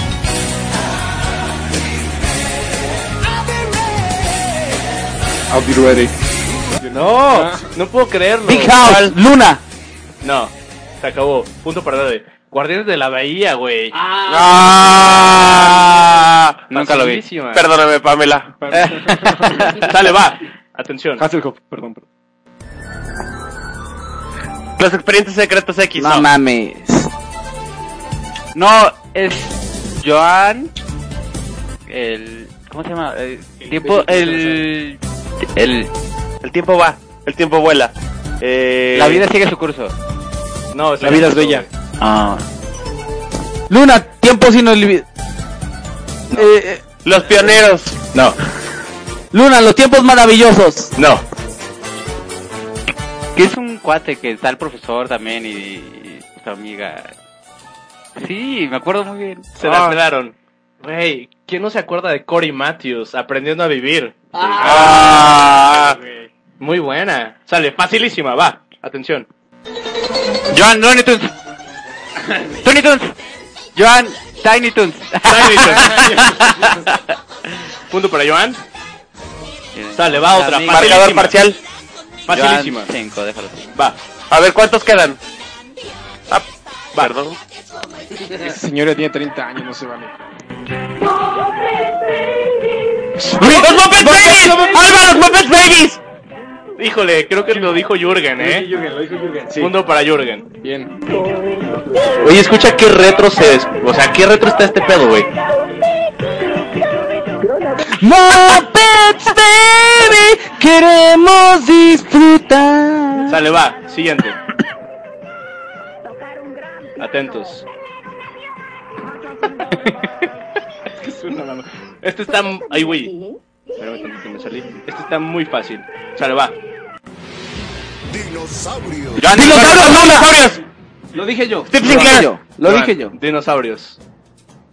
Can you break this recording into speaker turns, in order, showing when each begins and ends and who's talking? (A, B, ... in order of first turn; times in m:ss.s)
0:03.4-0:04.5 A
0:05.5-0:06.1 B
0:06.8-0:07.6 B
0:07.0-0:08.8 C
0:07.1-0:07.5 D
0:08.4-0:09.6 D
0:08.8-0:09.2 E
0:10.2-0:14.0 C
0:14.3-0:16.5 E
0:16.7-0:17.2 F
0:16.7-0:17.7 C
0:17.5-0:18.5 E
0:18.6-0:19.8 B
0:18.7-0:19.8 F
0:19.8-0:21.2 C
0:21.2-0:22.0 B
0:24.8-0:26.3 E
0:26.0-0:27.1 D
0:28.5-0:30.7 F
0:31.9-0:35.0 F
0:33.8-0:34.4 C
0:35.5-0:35.9 F
0:36.4-0:39.2 E
0:38.9-0:39.9 F
0:40.7-0:41.7 C
0:41.0-0:41.5 D
0:41.1-0:41.6 B
0:42.0-0:42.4 F
0:43.7-0:45.0 D
0:46.3-0:46.8 D
0:47.0-0:48.0 E
0:48.1-0:48.4 C
0:49.3-0:50.9 D
0:51.0-0:51.2 C
0:53.3-0:57.1 F
0:58.2-0:59.5 F
0:59.6-1:05.5 C
0:59.7-0:59.9 B
1:04.4-1:05.4 F
1:04.6-1:05.8 E
1:06.6-1:09.3 C
1:10.5-1:11.3 F
1:12.4-1:13.1 F
1:13.8-1:17.1 F
1:15.2-1:16.3 C
1:17.9-1:18.6 C
1:19.7-1:21.1 F
1:19.9-1:21.4 C
1:20.7-1:21.6 E
1:22.3-1:22.9 C
1:22.3-1:23.7 F
1:24.3-1:25.2 E
1:26.3-1:27.4 E
1:28.3-1:30.2 B
1:33.3-1:34.8 B
1:33.3-1:36.0 E
1:36.8-1:38.7 C
1:38.4-1:39.7 B
1:39.6-1:40.5 C
1:40.6-1:41.0 B
1:42.2-1:45.3 C
1:47.9-1:53.4 D
1:53.2-1:54.4 C
1:57.0-1:57.6 C
1:59.7-2:00.0 A
2:01.0-2:03.1 C
2:03.8-2:06.5 C
2:08.1-2:09.3 A
2:09.2-2:10.2 F
2:09.3-2:10.4 D
2:09.3-2:10.6 E
2:11.1-2:13.1 D
2:11.7-2:12.3 E
2:11.8-2:14.0 C